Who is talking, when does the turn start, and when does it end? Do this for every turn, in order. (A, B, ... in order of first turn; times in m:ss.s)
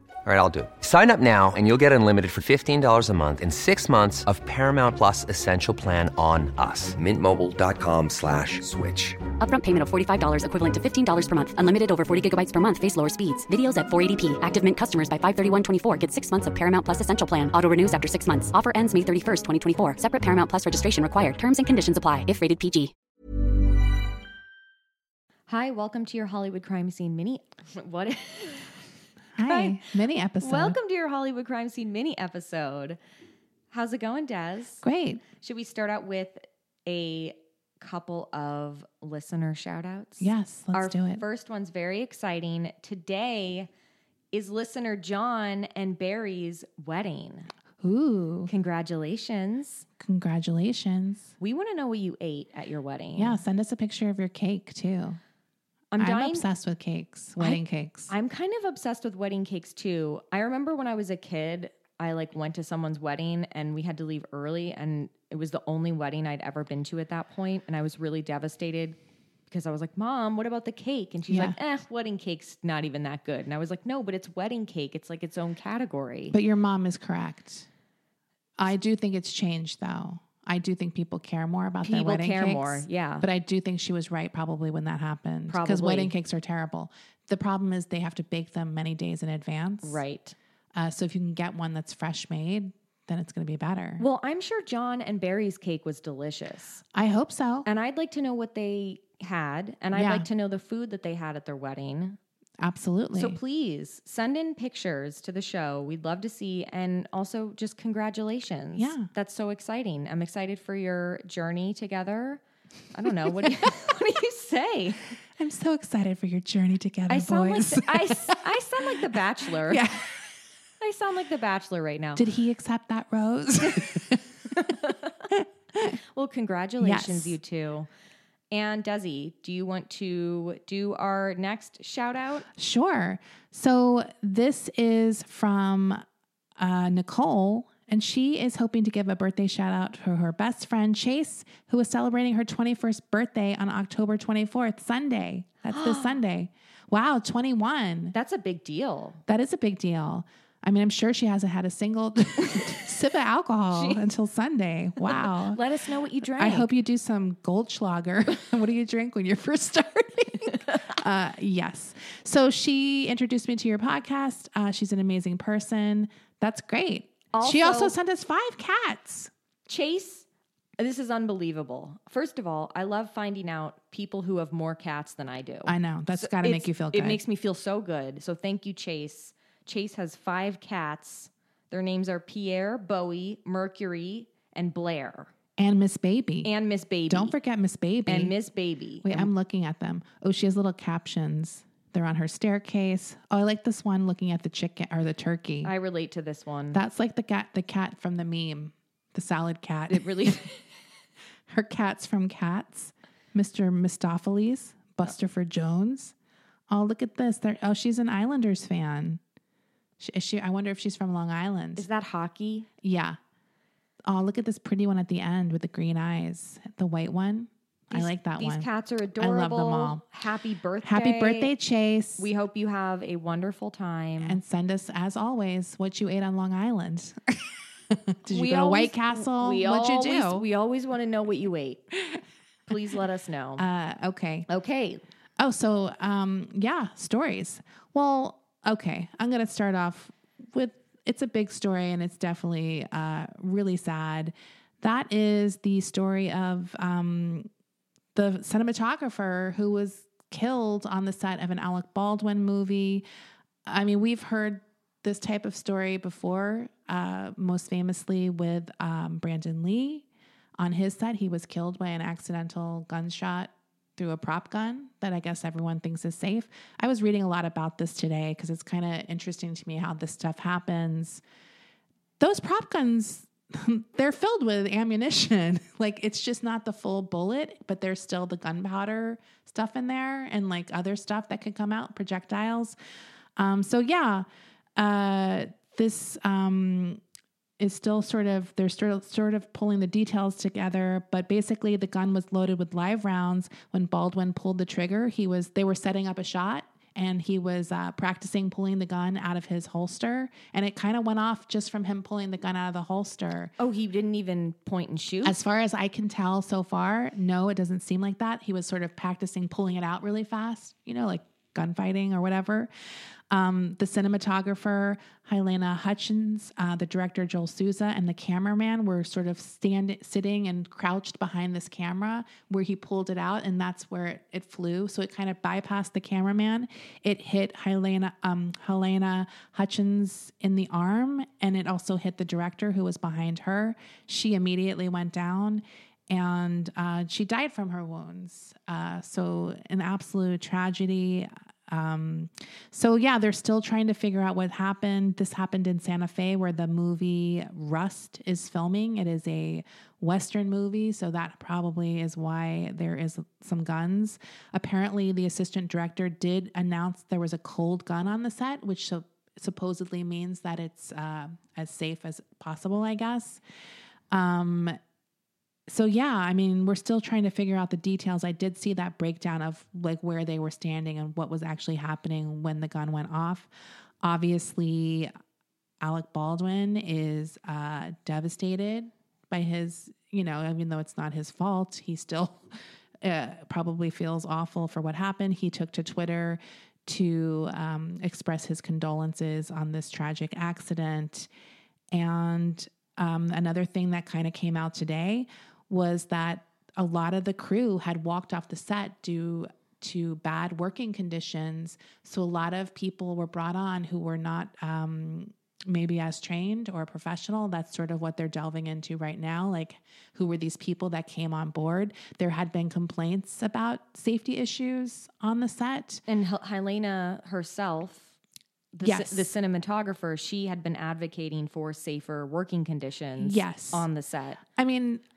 0:00.2-0:09.2 A
0:09.4-0:22.9 B
0:25.5-0:28.7 C
0:29.4-0:30.8 D
0:29.4-0:29.8 C
0:30.4-0:33.0 C
0:33.7-0:43.7 C
0:34.8-0:35.2 D
0:40.2-0:41.2 D
0:44.3-0:47.5 C
0:47.8-0:48.5 D
0:48.5-0:49.8 C
0:50.0-0:51.3 D
0:51.4-0:53.4 C
0:53.2-0:55.2 D
0:55.9-0:56.5 C
0:56.0-0:58.1 D
0:57.4-1:09.0 C
1:09.5-1:16.4 C
1:11.3-1:11.6 D
1:16.3-1:17.7 D
1:18.6-1:30.0 D
1:21.8-1:23.3 C
1:25.5-1:26.1 C
1:29.8-1:30.4 C
1:30.8-1:34.0 D
1:34.0-1:36.8 C
1:36.9-1:37.7 D
1:37.6-1:42.2 C
1:39.9-1:40.3 D
1:42.6-1:43.4 D
1:43.1-1:52.4 C
1:48.8-1:49.1 D
1:52.9-1:55.1 C
1:53.4-1:53.7 D
1:55.4-1:58.4 D
1:57.1-1:59.9 C
1:59.7-2:00.3 D
2:00.8-2:02.2 C
2:02.2-2:04.7 D
2:04.5-2:05.3 C
2:05.3-2:06.0 D
2:06.1-2:07.9 C
2:06.8-2:07.4 D
2:08.5-2:12.5 C
2:12.6-2:16.0 D
2:16.6-2:28.1 D
2:25.7-2:26.2 C
2:28.1-2:29.2 C
2:29.3-2:35.6 D
2:33.7-2:34.0 C
2:35.1-2:36.7 C
2:36.4-2:49.3 D
2:47.3-2:48.0 C
2:49.7-2:50.3 C
2:50.8-3:05.3 C
2:55.7-2:57.2 D
3:05.6-3:06.5 D
3:06.4-3:07.4 C
3:07.1-3:08.4 D
3:08.1-3:09.3 C
3:09.0-3:15.7 D
3:15.6-3:16.8 C
3:16.7-3:20.5 D
3:19.9-3:20.6 C
3:21.5-3:26.1 D
3:26.7-3:29.2 D
3:30.0-3:31.9 D
3:31.8-3:32.7 C
3:32.8-3:33.2 D
3:34.1-3:38.7 D
3:37.9-3:41.5 C
3:39.2-3:40.0 D
3:40.8-3:42.3 D
3:42.2-3:44.4 C
3:44.2-3:50.4 D
3:48.3-3:51.8 C
3:52.7-3:53.6 C
3:53.6-3:54.5 D
3:54.5-3:55.0 C
3:55.4-4:07.5 D
4:08.2-4:13.0 D
4:13.7-4:20.1 D
4:20.6-4:31.2 D
4:32.2-4:42.8 D
4:43.4-4:44.3 D
4:44.8-4:47.0 D
4:47.6-5:03.5 D
5:03.6-5:05.4 C
5:05.2-5:12.7 D
5:13.3-6:03.4 D
6:04.1-6:04.8 D
6:05.7-6:13.5 D
6:14.0-6:15.1 D
6:15.8-6:22.4 D
6:23.0-6:31.3 D
6:31.9-6:56.0 D
6:56.1-6:58.1 C
6:58.7-7:04.4 C
6:58.8-6:59.3 D
7:03.2-7:03.9 D
7:04.6-7:05.0 D